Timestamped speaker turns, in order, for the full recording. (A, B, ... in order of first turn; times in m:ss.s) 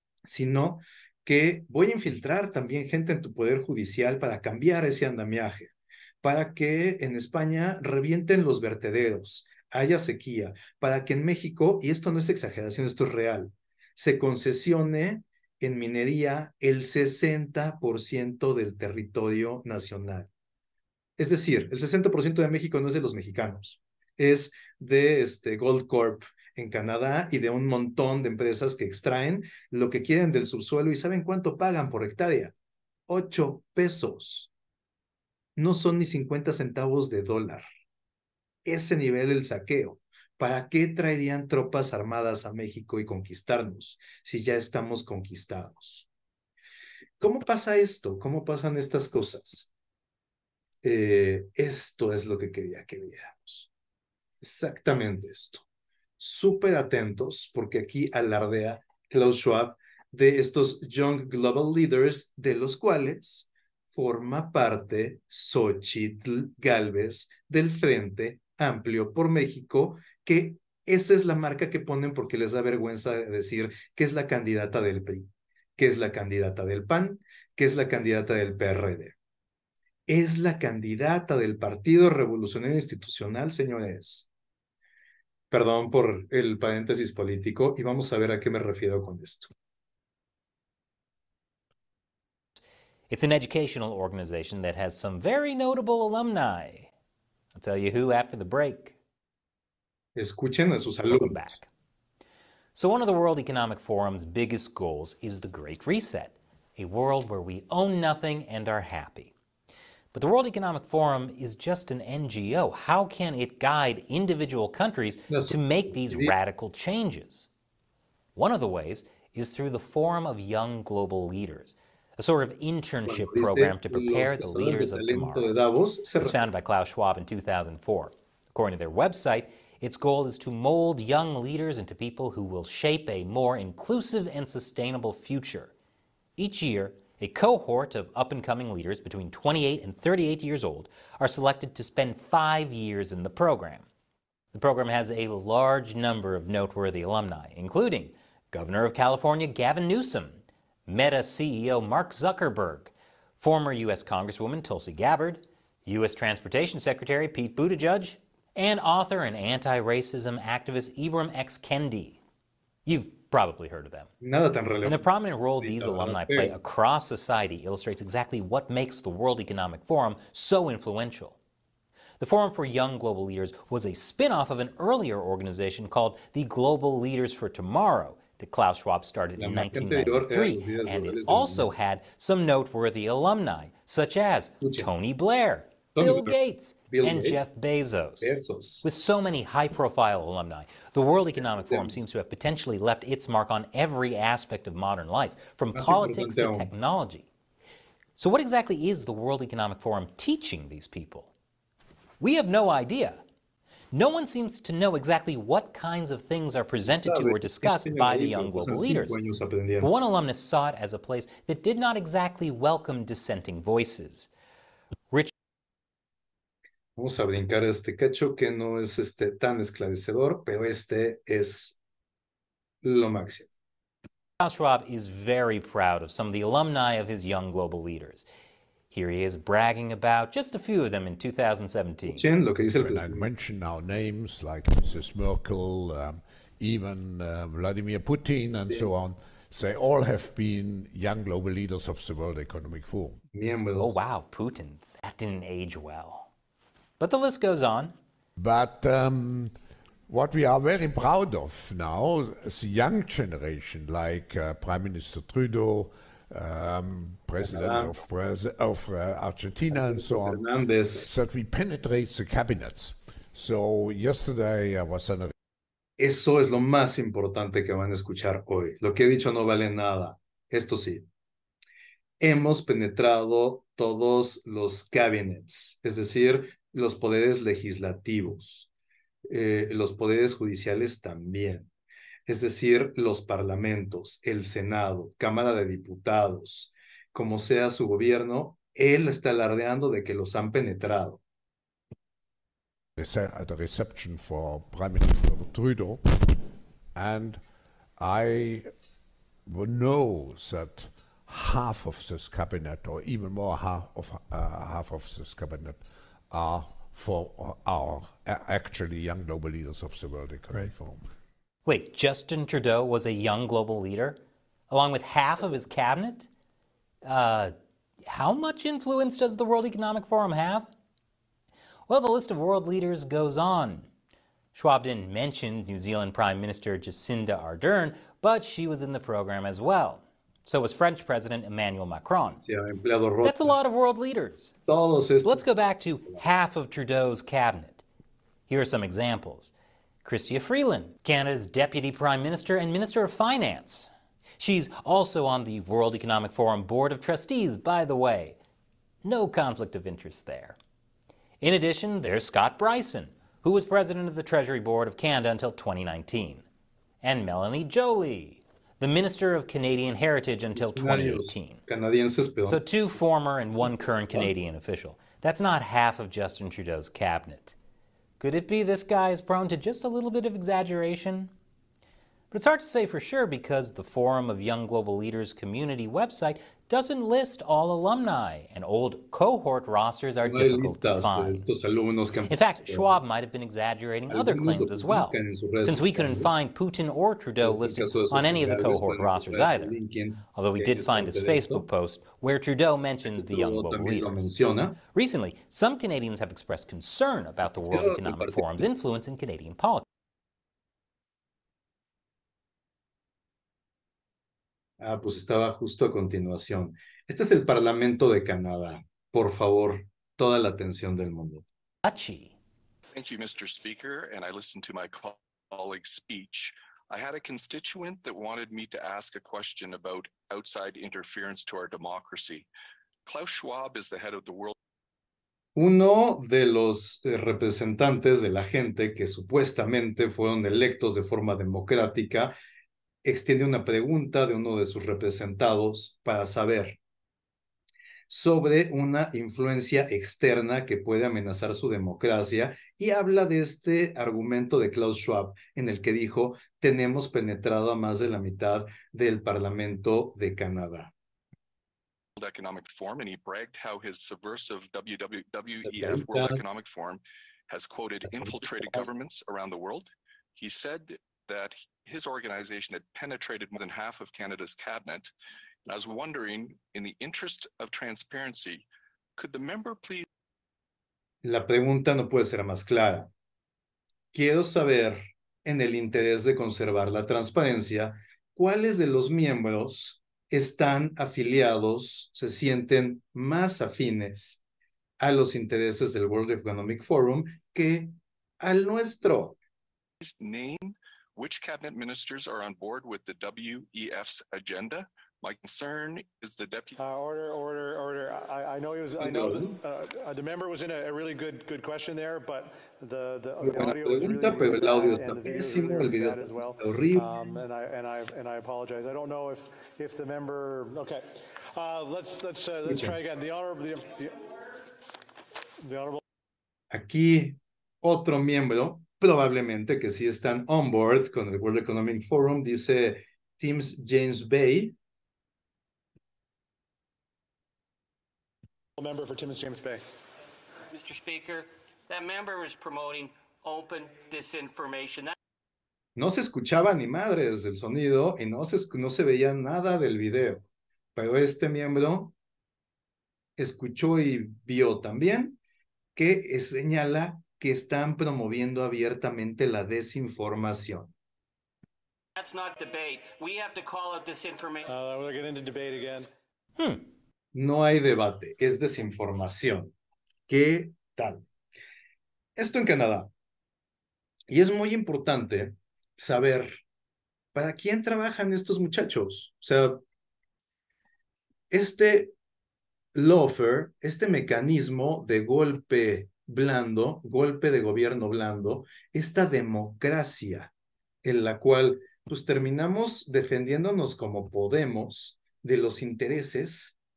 0:00.3-0:20.3 A
0:21.2-0:32.5 A
0:33.1-0:34.5 A
0:35.6-0:37.6 A
0:38.6-0:46.1 A
0:47.2-0:49.7 A
0:50.8-0:53.7 A
0:54.4-0:55.6 A
0:56.2-1:19.2 A
1:20.1-1:24.3 A
1:25.5-1:29.5 A
1:33.1-1:36.9 B
1:37.6-1:39.0 B
1:40.2-1:41.5 A
1:41.1-1:41.7 B
1:42.8-1:49.3 B
1:50.1-1:57.5 B
1:55.3-1:56.3 A
1:58.4-2:05.5 B
2:03.1-2:06.4 A
2:06.2-2:15.7 B
2:16.4-2:23.9 B
2:24.5-2:42.2 B
2:42.9-2:44.1 B
2:44.2-2:46.6 A
2:44.8-2:51.4 B
2:52.2-3:17.3 B
2:59.4-3:01.7 A
3:04.6-3:04.9 A
3:06.0-3:06.4 A
3:06.9-3:07.6 A
3:08.2-3:08.8 A
3:11.4-3:12.0 A
3:15.7-3:16.7 A
3:18.2-3:21.3 B
3:22.2-3:23.2 B
3:23.9-3:29.2 B
3:26.9-3:29.9 A
3:29.8-3:34.3 B
3:37.0-3:41.8 A
3:42.8-3:43.5 A
3:44.4-3:48.3 B
3:48.9-3:52.2 B
3:52.1-3:53.3 A
3:52.8-4:03.2 C
4:03.3-4:03.9 A
4:03.8-4:06.3 B
4:07.0-4:07.9 B
4:08.4-4:09.5 C
4:10.1-4:25.3 C
4:17.4-4:18.0 A
4:19.7-4:21.1 A
4:26.0-4:31.0 A
4:32.2-4:38.7 A
4:39.3-4:41.7 A
4:42.3-4:51.2 A
4:53.0-4:56.2 C
4:57.0-4:57.4 C
4:58.0-4:58.7 C
4:59.5-5:11.1 C
5:11.6-5:16.3 B
5:17.0-5:17.5 B
5:18.1-5:20.7 B
5:21.9-5:23.9 B
5:24.6-5:32.4 B
5:32.4-5:33.6 A
5:33.2-5:34.6 B
5:34.7-5:35.4 A
5:35.2-5:37.8 B
5:38.5-5:39.5 B
5:40.0-5:48.4 B
5:49.0-5:50.6 B
5:51.4-5:56.4 B
5:57.0-6:01.6 B
6:00.5-6:02.6 A
6:02.5-6:07.6 B
6:08.2-6:11.3 B
6:12.3-6:21.4 B
6:20.2-6:22.9 A
6:22.3-6:29.7 B
6:24.1-6:26.3 A
6:27.4-6:31.6 A
6:30.4-6:34.3 B
6:33.1-6:34.8 A
6:34.9-6:39.8 B
6:37.7-6:38.6 A
6:44.8-6:51.4 A
6:51.8-6:52.4 B
6:53.0-7:02.5 D
7:03.1-7:04.5 D
7:05.6-7:12.3 A
7:13.0-7:16.8 A
7:18.1-7:30.9 A
7:32.2-7:45.1 D
7:35.6-7:36.6 A
7:38.1-7:38.9 A
7:45.7-7:48.7 D
7:49.2-7:50.0 D
7:51.2-7:53.1 A
7:54.1-8:04.4 A
8:05.0-8:09.4 A
8:10.0-8:16.8 D
8:16.8-8:34.4 E
8:19.0-8:19.6 A
8:23.4-8:27.1 A
8:32.6-8:33.0 A
8:35.6-8:36.0 E
8:36.7-8:44.8 A
8:48.8-8:49.8 E
8:50.7-8:55.1 F
8:56.0-9:02.1 A
9:03.4-9:05.4 A
9:06.0-9:10.9 A
9:12.2-9:14.7 F
9:14.7-9:16.1 E
9:16.6-9:16.8 B
9:17.3-9:19.7 A
9:20.3-9:21.2 A
9:22.4-9:23.1 A
9:24.3-9:26.6 A
9:27.3-9:29.8 A
9:31.5-9:32.1 A
9:32.9-9:40.5 A
9:41.0-9:46.8 A